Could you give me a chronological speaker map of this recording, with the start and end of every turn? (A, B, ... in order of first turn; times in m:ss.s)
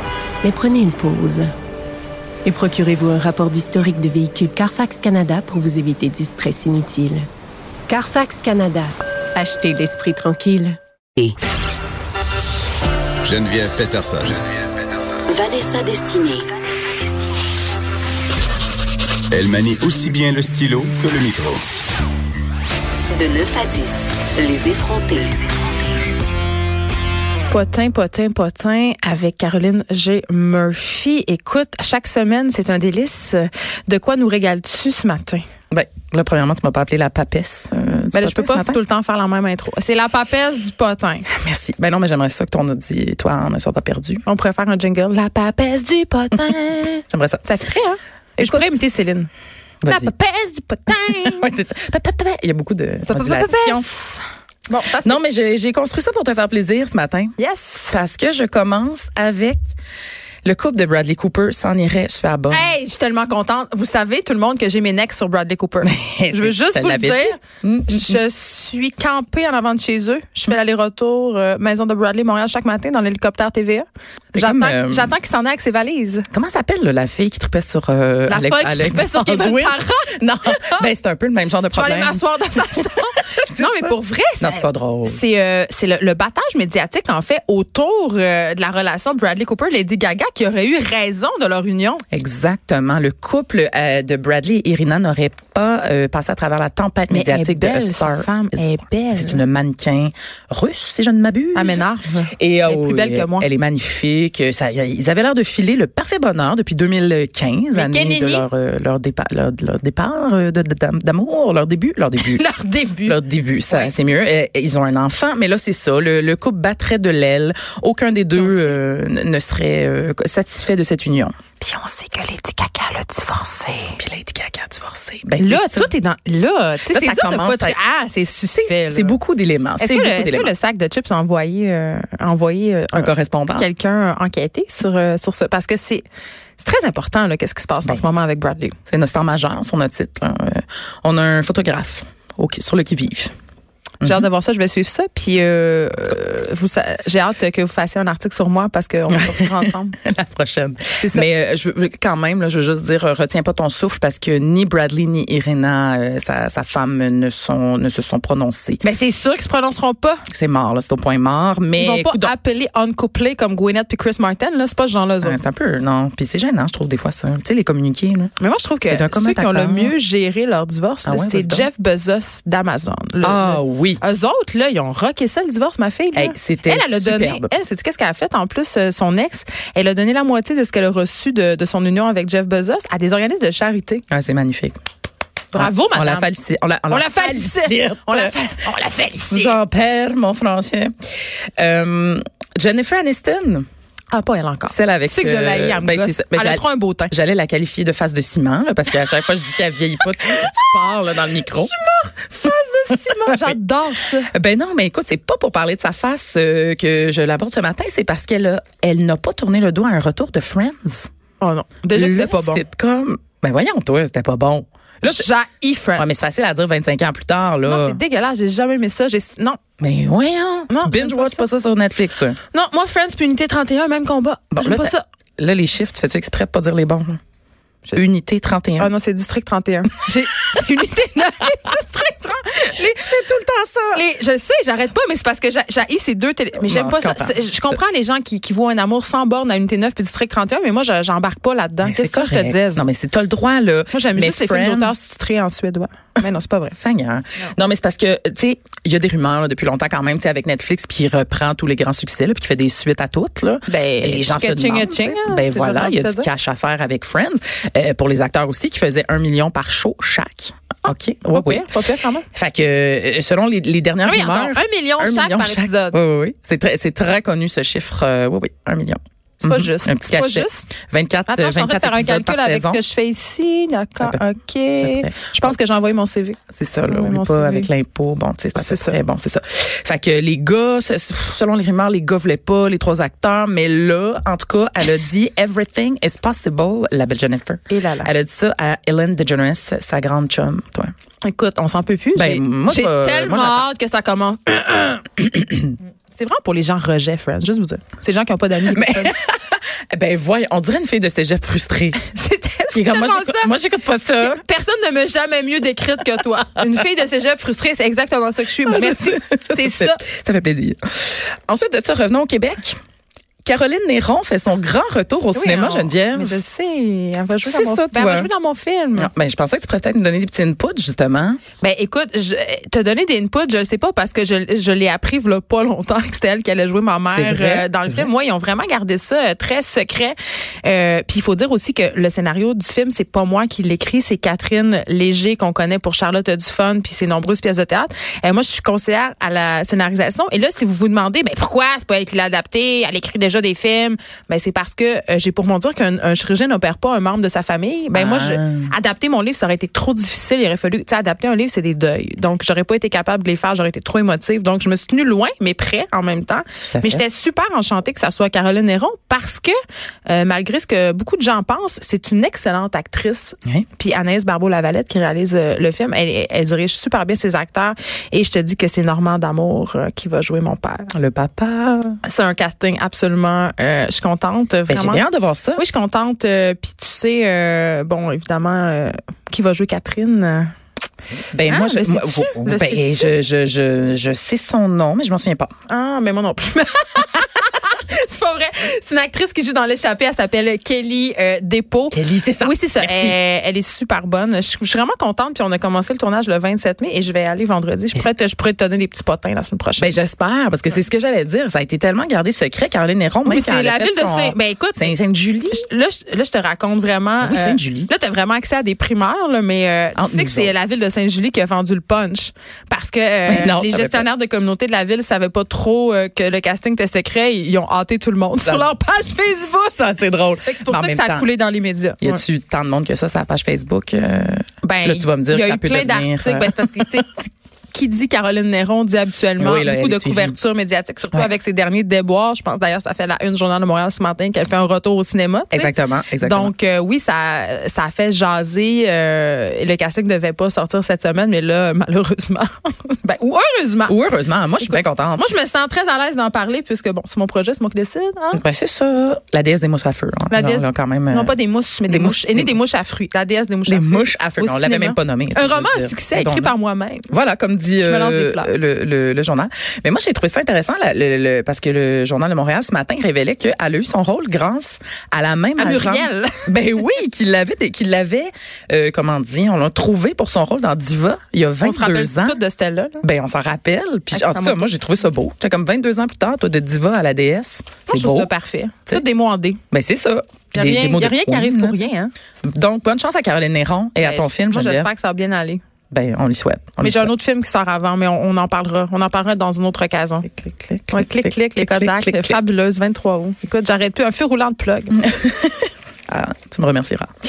0:00.4-0:01.5 A
0:02.4-0:07.3 A
0:07.9-0:10.8 A
0:13.2-0:14.4 B
0:15.3-0:16.5 C
0:19.3-0:21.6 B
0:23.2-0:25.4 C
0:27.5-0:35.4 D
0:35.7-0:38.8 E
0:38.1-0:41.3 D
0:41.3-0:44.2 E
0:44.2-0:49.3 D
0:47.1-0:47.4 E
0:48.4-0:48.8 E
0:49.8-0:50.1 E
0:49.9-0:51.5 D
0:51.0-0:53.9 E
0:53.1-0:55.2 D
0:55.0-0:57.3 E
0:57.4-0:58.0 D
0:57.9-0:59.6 E
1:00.4-1:02.7 E
1:02.5-1:07.4 D
1:05.8-1:08.2 E
1:07.9-1:16.3 D
1:14.4-1:15.2 E
1:16.3-1:22.9 E
1:18.3-1:20.9 D
1:21.7-1:32.0 D
1:23.4-1:23.9 E
1:24.4-1:25.2 E
1:32.1-1:52.4 E
1:37.1-1:39.4 D
1:41.6-1:43.5 D
1:47.7-1:48.5 D
1:52.2-1:53.9 D
1:53.1-2:01.3 E
1:58.3-1:58.8 D
2:01.6-2:04.0 D
2:04.0-2:05.9 E
2:05.4-2:09.2 D
2:06.9-2:07.8 E
2:08.5-2:10.5 E
2:09.8-2:16.0 D
2:12.9-2:13.7 E
2:16.6-2:18.8 D
2:18.9-2:23.3 E
2:24.0-2:24.3 E
2:24.0-2:30.0 D
2:29.1-2:38.8 E
2:31.0-2:31.3 D
2:38.8-2:40.2 D
2:40.3-2:42.3 E
2:41.8-2:45.4 D
2:45.2-2:49.9 E
2:48.4-3:04.0 D
2:51.0-2:51.7 E
2:53.2-2:54.0 E
2:56.1-2:57.5 E
3:04.1-3:04.8 E
3:05.5-3:06.3 D
3:05.5-3:08.5 E
3:06.9-3:09.6 D
3:09.3-3:10.9 E
3:11.6-3:13.7 E
3:14.1-3:17.1 D
3:14.7-3:21.7 E
3:20.3-3:24.3 D
3:22.4-3:23.5 E
3:24.3-3:31.1 E
3:31.4-3:32.6 D
3:31.9-3:35.3 E
3:35.0-3:36.1 D
3:36.0-3:38.0 E
3:37.7-3:39.6 D
3:39.8-3:42.4 E
3:40.7-3:41.4 D
3:42.5-3:45.0 D
3:44.5-3:47.2 E
3:47.9-3:48.9 E
3:48.8-3:53.1 D
3:52.8-3:54.0 E
3:53.9-4:02.8 D
3:56.6-3:57.8 E
4:01.8-4:05.0 E
4:03.9-4:06.8 D
4:06.7-4:21.7 E
4:13.7-4:16.3 D
4:21.2-4:22.3 D
4:22.3-4:32.8 E
4:24.0-4:26.0 D
4:29.4-4:30.7 D
4:31.3-4:37.7 D
4:34.8-4:35.6 E
4:36.5-4:50.9 E
4:38.6-4:39.0 D
4:47.7-4:48.1 D
4:51.2-4:55.1 D
4:52.1-4:53.6 E
4:56.1-4:59.2 D
4:58.7-5:02.0 E
5:02.0-5:03.5 D
5:02.7-5:04.4 E
5:04.2-5:10.0 D
5:08.6-5:12.8 E
5:13.4-5:16.3 E
5:15.3-5:19.1 D
5:17.4-5:18.3 E
5:18.9-5:21.4 E
5:21.6-5:59.5 D
5:27.1-5:28.1 E
5:47.9-5:48.7 E
5:56.7-5:57.0 E
6:00.1-6:10.9 D
6:10.9-6:12.0 E
6:12.0-6:15.0 D
6:14.7-6:15.6 E
6:15.6-6:20.5 D
6:21.3-6:25.5 E
6:21.5-6:23.1 D
6:25.7-6:39.9 D
6:31.9-6:33.2 E
6:39.8-6:45.7 E
6:43.2-6:45.0 D
6:45.5-6:59.7 D
6:47.2-6:47.9 E
6:50.0-6:50.5 E
6:53.2-6:54.1 E
6:58.4-7:01.3 E
7:00.4-7:02.2 D
7:02.0-7:07.0 E
7:04.6-7:24.0 D
7:09.4-7:10.4 E
7:15.5-7:16.5 E
7:23.9-7:25.2 E
7:24.6-7:28.4 D
7:28.3-7:31.3 E
7:30.3-7:37.1 D
7:31.9-7:32.6 E
7:33.7-7:36.5 E
7:37.1-7:52.4 E
7:37.8-7:38.5 D
7:45.6-7:46.4 D
7:51.6-7:53.0 D
7:53.0-7:58.3 E
7:54.1-7:54.6 D
7:57.9-7:59.6 D
7:59.7-8:01.8 E
8:00.5-8:02.1 D
8:02.4-8:04.9 E
8:04.0-8:05.6 D
8:05.9-8:07.1 E
8:06.8-8:10.3 D
8:10.2-8:12.4 E
8:10.9-8:15.0 D
8:15.1-8:17.1 E